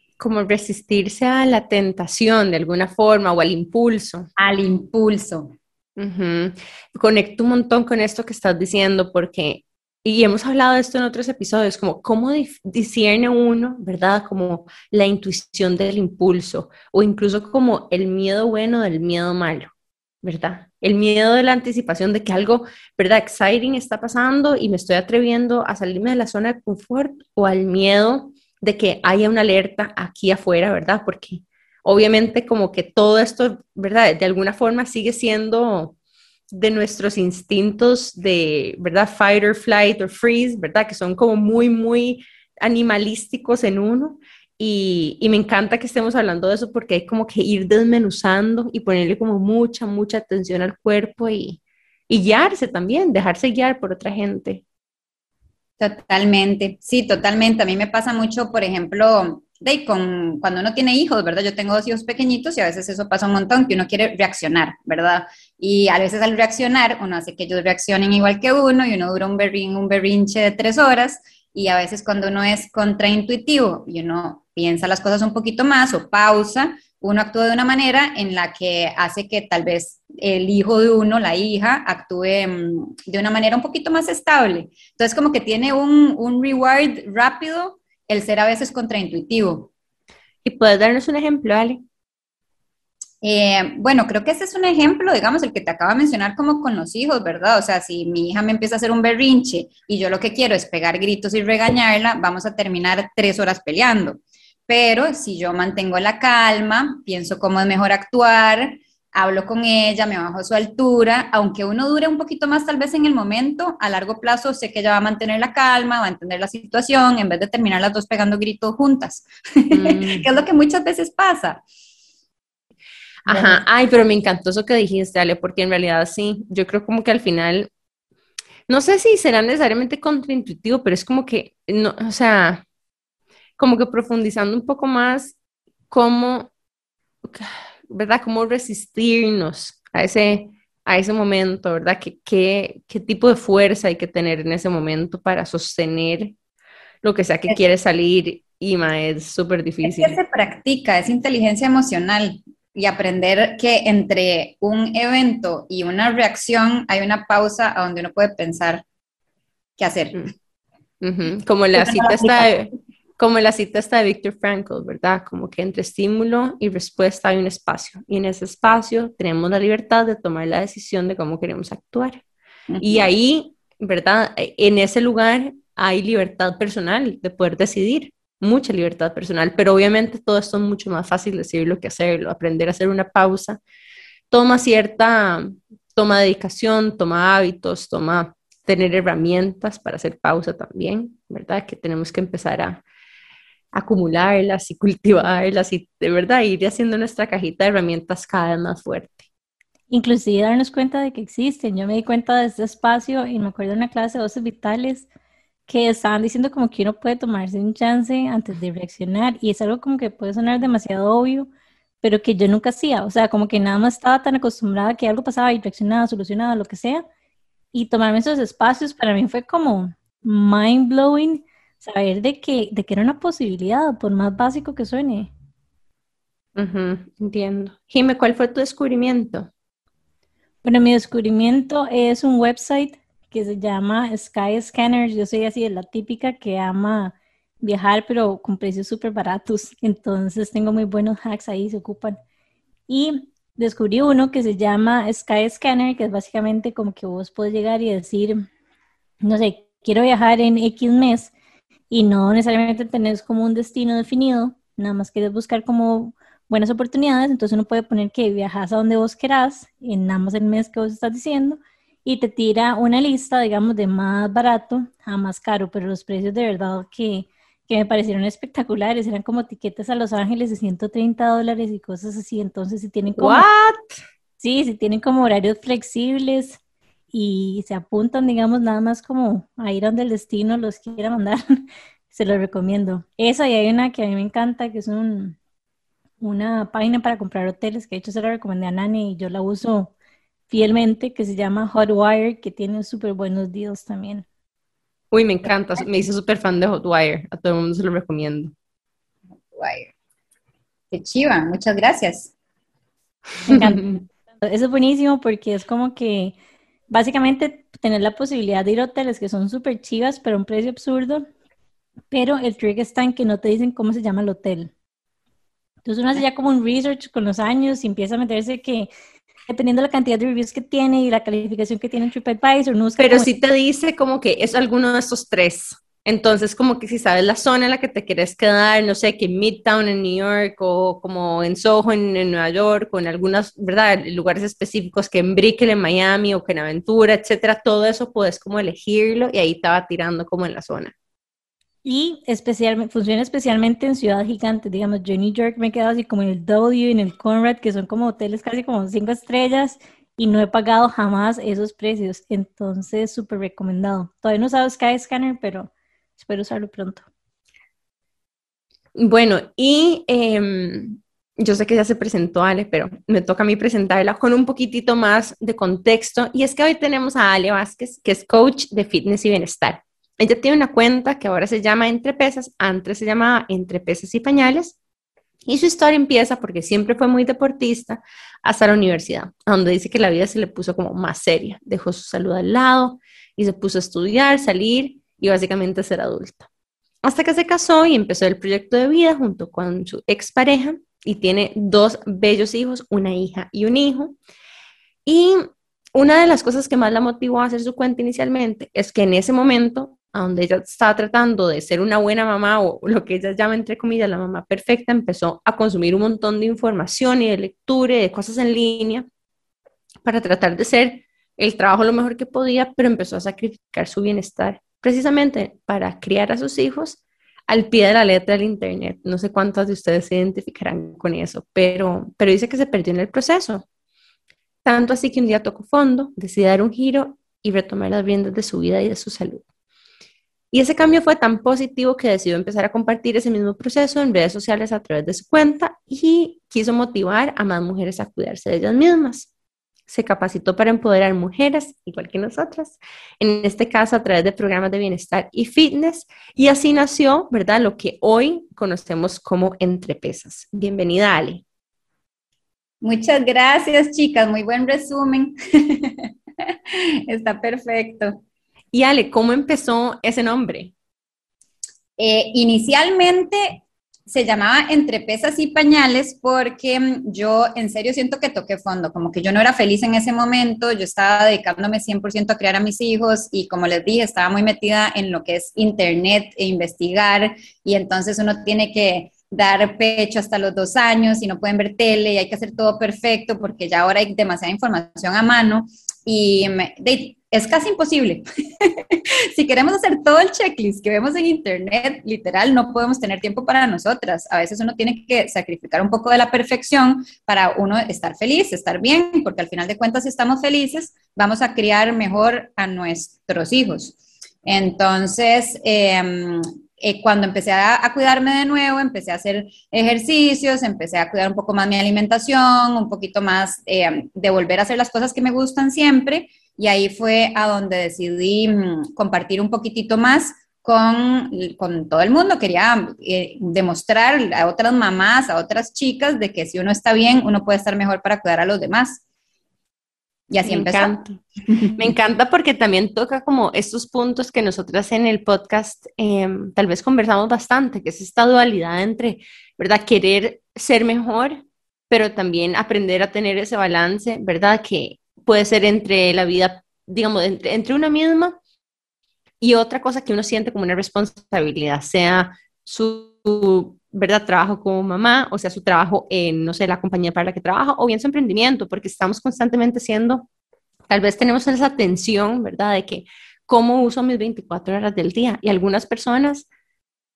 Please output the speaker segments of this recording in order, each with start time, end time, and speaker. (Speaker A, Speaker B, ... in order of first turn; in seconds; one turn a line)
Speaker A: 0.2-4.3
Speaker B: 4.4-5.5
Speaker A: 6.0-19.7
Speaker A: 20.2-35.9
Speaker A: 36.5-54.6
Speaker B: 55.8-89.7
Speaker A: 90.4-91.8
Speaker B: 93.2-121.6
Speaker A: 119.7-120.3
Speaker A: 123.2-127.7
Speaker B: 123.3-123.6
Speaker A: 128.7-132.6
Speaker A: 133.6-135.4
Speaker A: 135.9-136.5
Speaker A: 137.2-146.3
Speaker A: 147.0-150.2
Speaker B: 149.8-158.8
Speaker B: 159.8-160.2
Speaker A: 161.0-172.2
Speaker B: 161.8-162.5
Speaker B: 172.7-173.1
Speaker A: 172.8-183.6
Speaker A: 184.3-192.8
Speaker A: 193.7-199.3
Speaker C: 199.9-205.1
Speaker C: 205.7-211.5
Speaker C: 212.0-217.0
Speaker C: 217.7-225.3
Speaker A: 226.6-229.5
Speaker C: 230.6-242.2
Speaker C: 242.9-248.5
Speaker C: 249.2-251.3
Speaker C: 251.9-273.5
Speaker A: 273.2-274.0
Speaker C: 274.4-276.6
Speaker C: 277.1-285.4
Speaker C: 286.2-289.9
Speaker C: 290.5-294.2
Speaker A: 295.1-298.5
Speaker B: 299.5-299.9
Speaker B: 300.9-302.3
Speaker C: 303.5-306.4
Speaker B: 303.5-304.0
Speaker C: 306.9-311.3
Speaker C: 312.1-314.7
Speaker C: 315.8-318.9
Speaker C: 319.5-323.3
Speaker A: 323.0-340.9
Speaker C: 341.8-357.0
Speaker A: 358.9-374.8
Speaker A: 375.4-386.5
Speaker A: 387.0-394.1
Speaker A: 395.1-409.1
Speaker A: 410.0-423.6
Speaker A: 424.6-429.4
Speaker A: 430.5-439.3
Speaker A: 439.9-451.4
Speaker B: 452.8-456.1
Speaker B: 457.1-458.2
Speaker A: 458.7-460.7
Speaker B: 462.0-529.0
Speaker B: 530.3-531.9
Speaker A: 530.4-531.2
Speaker A: 531.8-541.4
Speaker A: 541.9-548.4
Speaker A: 549.4-560.2
Speaker A: 560.9-566.5